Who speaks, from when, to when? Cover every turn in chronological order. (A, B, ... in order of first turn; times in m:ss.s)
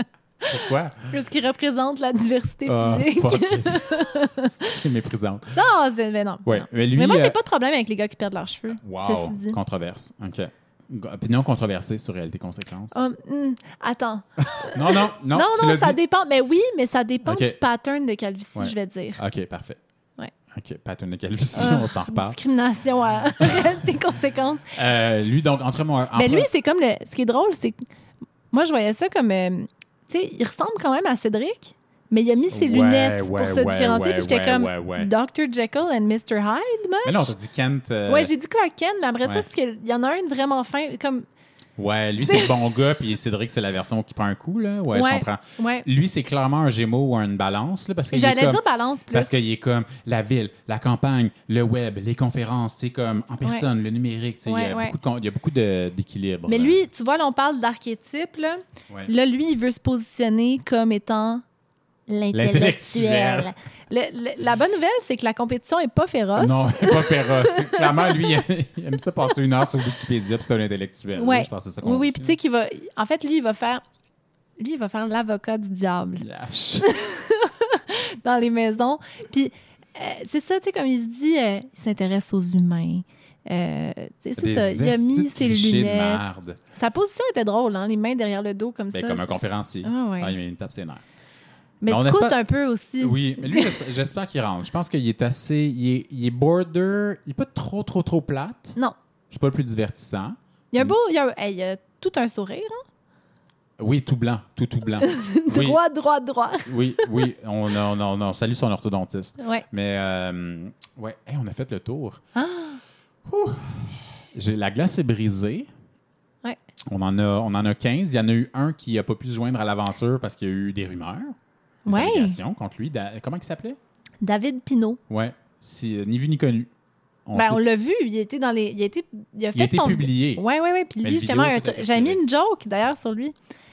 0:00.5-0:01.1 A
0:01.1-0:04.7 B
0:02.7-0:05.5 A
0:05.6-0:09.6 B
0:06.4-0:07.4 A
0:08.7-0:13.0 A
0:12.9-0:19.2 B
0:14.6-0:16.0 A
0:17.2-0:17.6 A
0:18.6-0:19.8 A
0:20.5-0:22.4 A
0:21.5-0:24.7 B
0:23.4-0:23.8 A
0:24.7-0:26.5 A
0:26.2-0:27.9 B
0:28.5-0:37.3 B
0:32.5-0:35.1 A
0:37.0-0:38.3 A
0:38.1-0:41.3 B
0:41.8-0:48.6 A
0:42.2-0:42.5 B
0:44.9-0:45.9 B
0:48.1-0:49.3 B
0:49.1-0:56.8 A
0:54.5-0:55.0 B
0:56.5-1:01.4 B
1:02.1-1:08.4 B
1:02.3-1:03.5 A
1:06.4-1:12.4 A
1:11.2-1:13.8 B
1:14.6-1:26.2 B
1:16.2-1:16.9 A
1:24.4-1:26.6 A
1:26.8-1:30.4 B
1:28.9-1:31.0 A
1:31.8-1:33.8 B
1:31.9-1:32.4 A
1:33.0-1:38.8 A
1:39.3-1:41.0 A
1:40.7-1:42.8 B
1:43.8-1:45.8 A
1:45.0-1:47.3 B
1:46.7-1:52.2 A
1:49.4-1:49.6 B
1:52.4-1:52.8 B
1:53.3-1:55.7 A
1:56.9-2:01.3 A
2:01.9-2:02.4 B
2:01.9-2:03.8 A
2:04.2-2:05.0 B
2:05.1-2:06.7 A
2:07.3-2:07.6 A
2:07.3-2:13.4 B
2:09.6-2:10.4 A
2:11.0-2:12.2 A